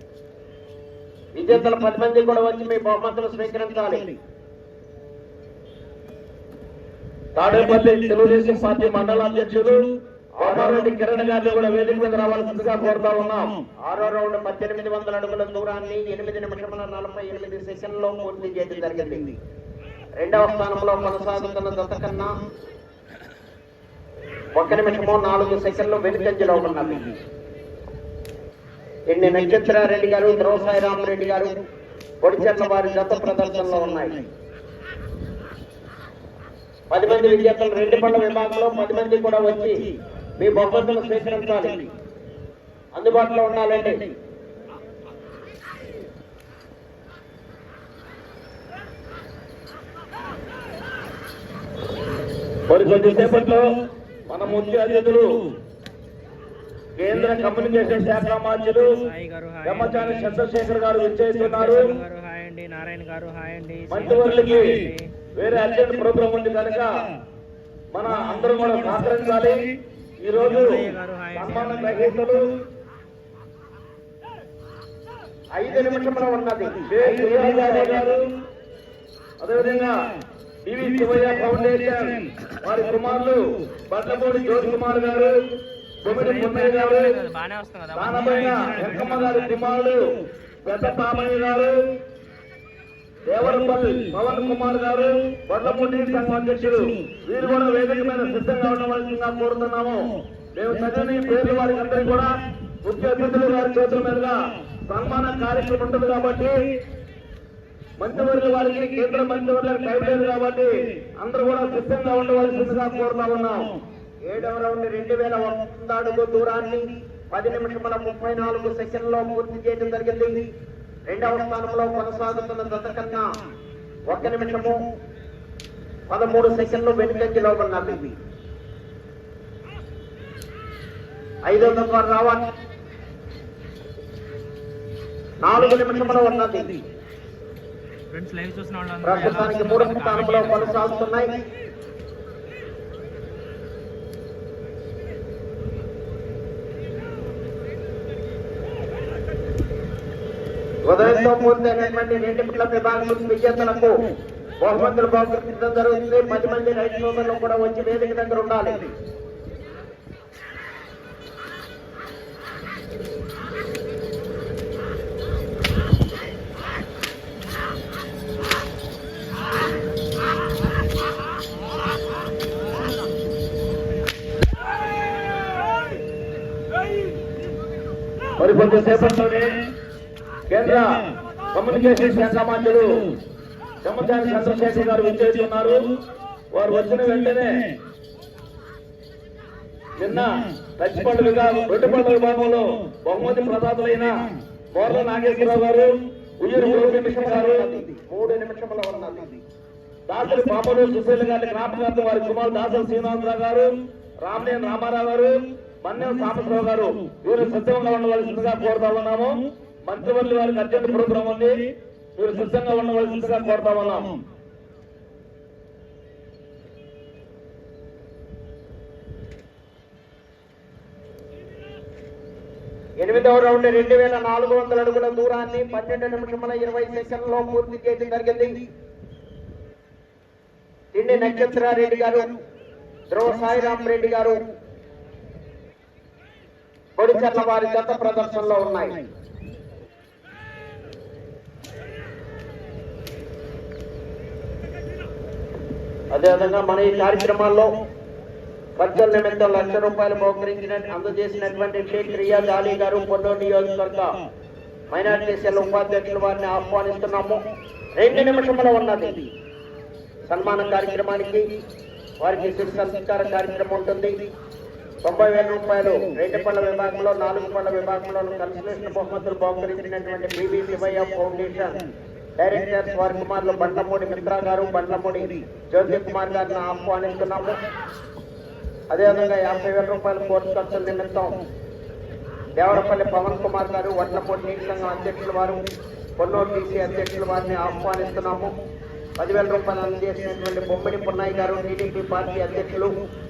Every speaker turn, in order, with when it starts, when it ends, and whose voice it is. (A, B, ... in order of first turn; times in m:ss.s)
0:01.3-0:04.1 A
0:07.4-0:13.6 B
0:10.4-0:10.9 A
0:13.8-0:19.3 A
0:20.2-0:22.3 A
0:24.6-0:27.2 A
0:29.1-0:31.6 A
0:32.2-0:34.2 A
0:36.9-0:41.8 A
0:43.0-0:44.1 A
0:52.7-0:55.5 B
0:57.0-0:59.0 B
0:58.8-1:00.4 C
0:59.6-1:02.0 B
1:01.4-1:05.1 C
1:03.9-1:07.1 B
1:07.9-1:12.6 B
1:10.4-1:12.1 C
1:15.5-1:18.1 A
1:16.9-1:18.3 B
1:19.4-1:20.0 B
1:20.6-1:25.4 B
1:26.0-1:27.2 B
1:26.1-1:29.7 C
1:27.9-1:32.0 B
1:33.2-1:42.3 B
1:42.8-1:44.4 B
1:44.9-1:46.8 B
1:48.0-1:53.8 B
1:54.3-2:00.5 A
2:01.1-2:03.3 A
2:04.1-2:04.9 A
2:06.1-2:08.1 A
2:11.5-2:12.5 A
2:15.4-2:16.8 A
2:18.1-2:20.8 C
2:19.0-2:21.4 A
2:30.8-2:34.0 A
2:34.6-2:38.9 A
2:58.4-2:59.6 B
3:00.5-3:03.1 B
3:03.8-3:06.0 B
3:06.5-3:07.7 B
3:10.0-3:17.8 B
3:16.9-3:19.3 A
3:20.1-3:34.2 B
3:43.0-3:48.6 A
3:50.9-3:52.3 A
3:53.1-3:54.5 A
3:57.0-3:59.0 A
4:06.1-4:07.8 A
4:08.8-4:14.1 A
4:14.9-4:17.4 A
4:18.0-4:19.2 A
4:20.3-4:21.5 A
4:22.2-4:24.2 A
4:25.0-4:31.8 A
4:32.4-4:37.6 A
4:38.9-4:41.4 A
4:42.6-4:45.7 A
4:46.2-4:48.6 A
4:49.2-4:53.0 A